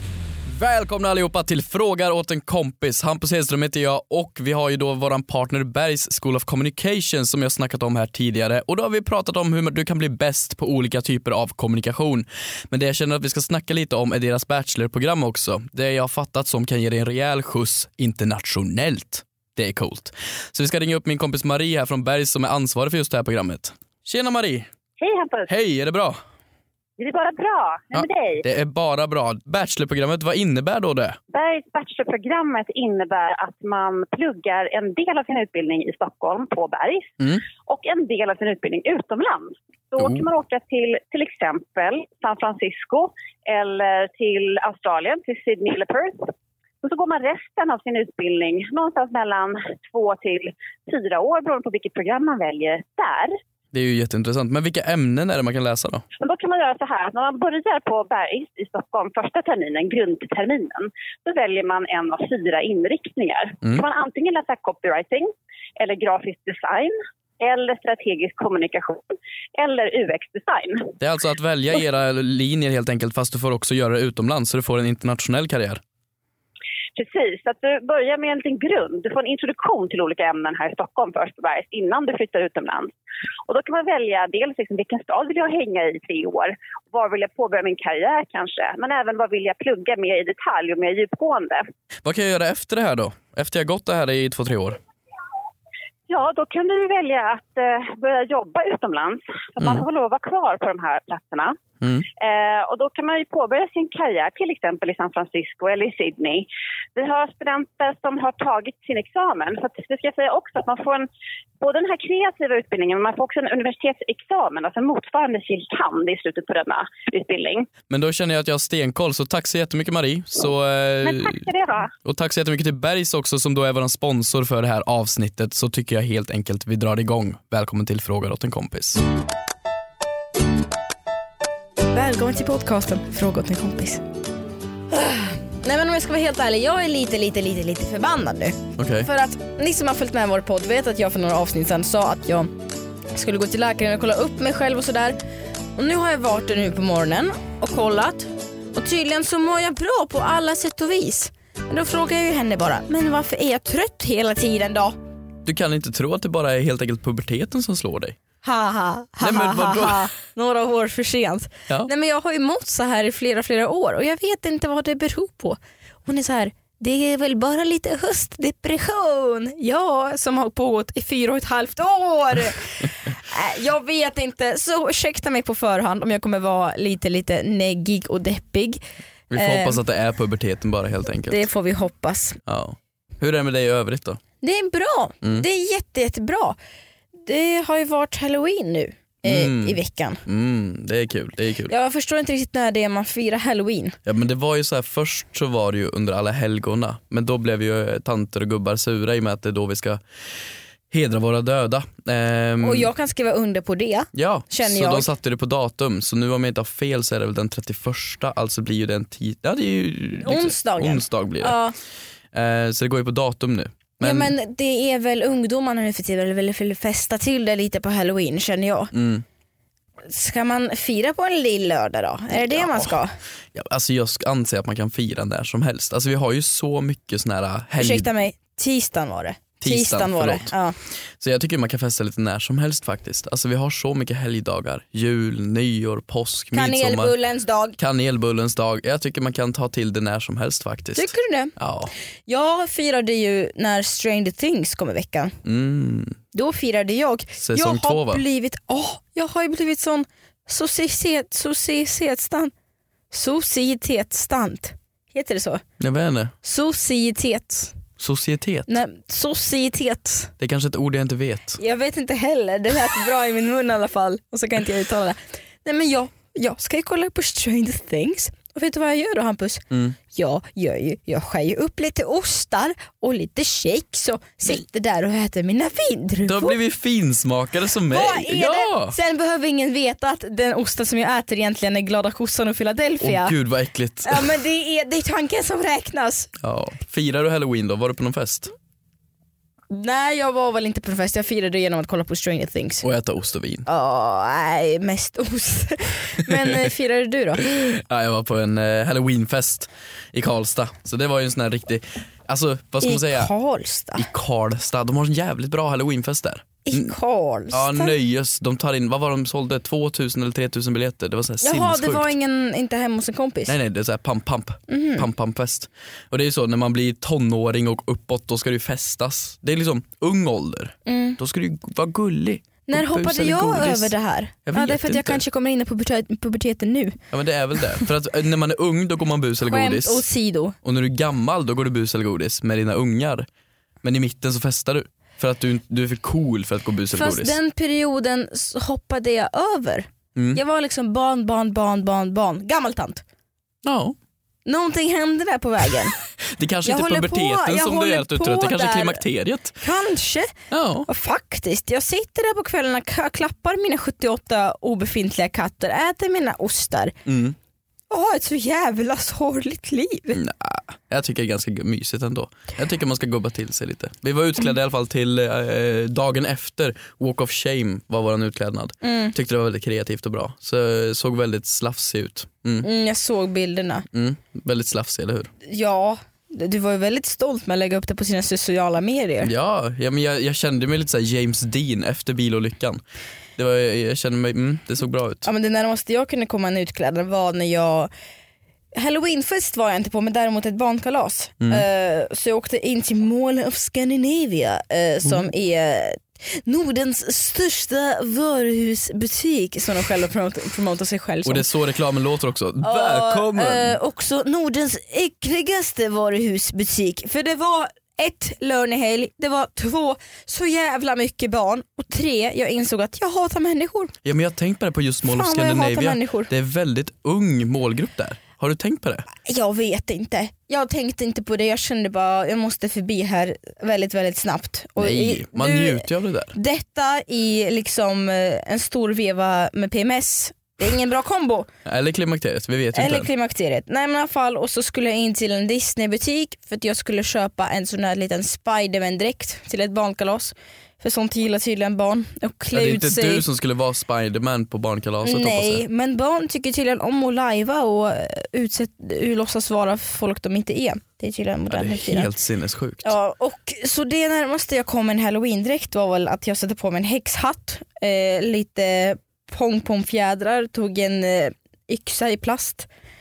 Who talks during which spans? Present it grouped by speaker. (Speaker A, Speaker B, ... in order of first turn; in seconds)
Speaker A: 0.5-24.7, 25.5-26.2, 27.9-31.2, 40.0-40.2, 53.7-56.0, 71.0-75.8, 92.0-94.8, 101.8-102.1, 117.9-121.5, 122.0-129.0, 138.8-139.1, 155.4-158.2, 159.2-160.1, 179.3-181.5, 182.5-184.2, 189.2-191.7, 194.1-200.0, 200.9-202.9, 204.1-211.6, 212.3-214.3, 218.9-219.2, 222.4-223.0, 223.5-228.1, 229.6-230.5, 231.2-237.1, 237.8-241.9, 245.4-246.2, 247.4-248.2, 255.8-256.3, 258.0-258.7, 260.4-261.6, 269.7-270.0, 276.2-279.0, 283.0-284.3, 286.4-288.5, 292.8-293.7, 296.3-296.7, 297.4-303.3, 304.0-306.9, 307.5-312.1, 313.5-325.2, 327.1-330.1, 330.6-333.3, 333.8-337.4, 340.1-340.4, 343.6-344.0, 346.2-349.6, 350.5-350.9, 357.1-357.4, 360.1-372.7, 373.9-375.3, 379.2-382.8, 383.4-385.3, 401.2-403.8, 414.0-419.1, 424.8-426.3, 431.6-433.1, 442.5-445.6, 451.5-452.9
Speaker B: 25.0-25.5, 27.0-28.4, 31.3-46.3, 46.8-53.3, 56.2-70.9, 77.0-82.9, 83.5-91.6, 96.1-101.6, 102.2-111.1, 111.6-117.7, 121.0-121.9
Speaker C: 131.9-134.0, 134.9-142.5, 143.1-145.2, 145.8-155.0, 158.4-179.8, 181.3-182.4, 184.4-186.6, 187.3-190.2, 191.7-194.0, 202.6-205.1, 210.2-211.8, 214.0-218.9, 220.1-223.2, 227.8-230.8, 236.5-237.8, 240.9-241.6, 242.3-245.4, 246.3-252.5, 253.1-255.6, 256.4-257.8, 258.7-260.3, 261.6-276.6, 277.9-283.4, 284.1-286.3, 289.7-292.9, 293.7-297.4, 302.8-304.1, 306.7-307.9, 311.4-313.6, 314.7-315.1, 320.9-321.2, 322.7-327.0, 329.4-330.6, 336.9-343.0, 344.5-346.0, 346.6-349.0, 349.6-350.3, 350.9-357.0, 357.9-360.2, 368.8-369.1, 372.6-373.9, 375.4-379.3, 385.2-387.9, 388.8-401.5, 402.6-413.9, 415.1-416.3, 419.2-431.5, 432.7-443.2, 445.0-452.1, 452.8-462.7